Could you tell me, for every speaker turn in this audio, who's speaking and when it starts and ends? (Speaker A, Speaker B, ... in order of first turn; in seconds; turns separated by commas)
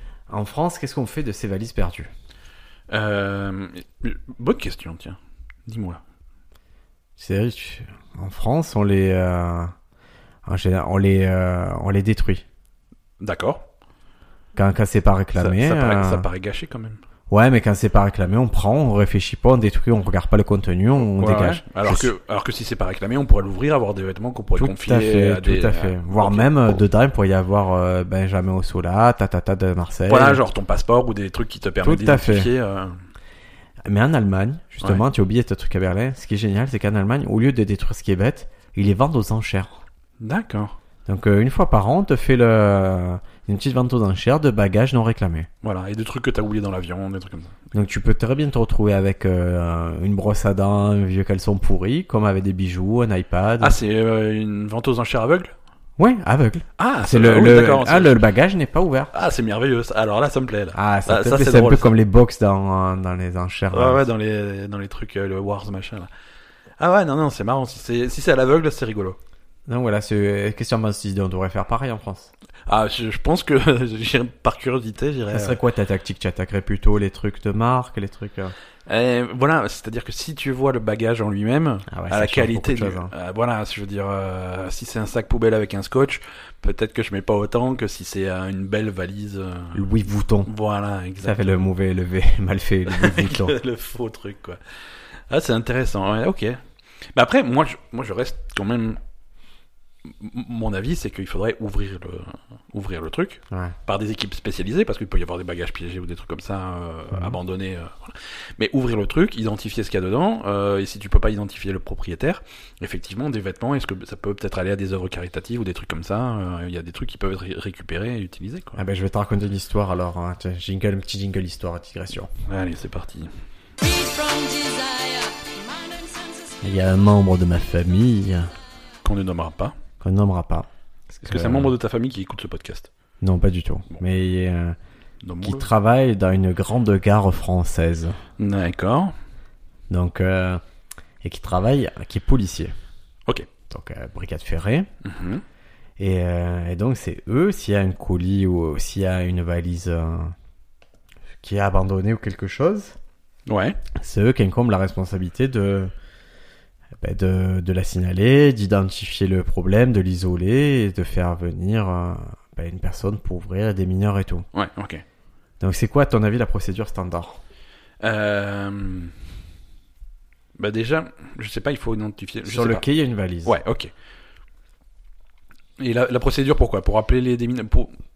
Speaker A: 0.3-2.1, Speaker B: 2.9-6.0, Speaker A: 7.2-9.7, Speaker A: 10.4-12.4, Speaker B: 13.2-13.7, Speaker A: 14.6-16.3, Speaker B: 15.4-17.0, Speaker A: 17.3-22.1, Speaker B: 21.0-26.8, Speaker A: 24.6-30.4, Speaker B: 30.1-33.0, Speaker A: 31.8-32.5, Speaker A: 33.9-39.8, Speaker B: 40.2-40.8, Speaker A: 41.1-45.5, Speaker B: 45.6-47.6, Speaker A: 47.7-53.8, Speaker B: 53.6-55.5, Speaker A: 56.0-59.1, Speaker B: 56.8-58.2, Speaker B: 59.1-62.0, Speaker A: 60.7-64.0, Speaker B: 63.7-66.1, Speaker B: 66.8-69.2, Speaker A: 69.7-72.3, Speaker B: 72.7-75.6, Speaker A: 75.3-78.5, Speaker B: 78.9-89.8, Speaker A: 81.9-83.1, Speaker A: 89.7-90.5, Speaker B: 90.5-91.6, Speaker A: 91.2-93.6, Speaker B: 92.9-94.6, Speaker B: 95.3-96.6, Speaker B: 97.1-99.0, Speaker B: 100.1-118.8, Speaker A: 118.8-122.3, Speaker B: 122.5-123.3, Speaker C: 123.8-126.9, Speaker A: 126.6-128.5, Speaker B: 129.0-129.8, Speaker A: 130.0-131.7, Speaker B: 131.2-132.9, Speaker A: 133.2-134.8, Speaker B: 135.2-135.7, Speaker A: 135.4-138.2, Speaker B: 138.4-139.1, Speaker A: 139.9-140.6, Speaker A: 141.2-142.8, Speaker A: 143.7-144.9, Speaker B: 145.0-145.4, Speaker A: 146.0-150.3, Speaker A: 151.4-153.0, Speaker B: 153.5-153.8, Speaker A: 153.9-155.9, Speaker A: 157.0-164.5, Speaker B: 164.5-165.0, Speaker A: 165.6-167.4, Speaker B: 168.0-169.1, Speaker B: 170.6-172.8, Speaker A: 172.4-173.6, Speaker B: 173.4-173.9, Speaker B: 175.8-177.9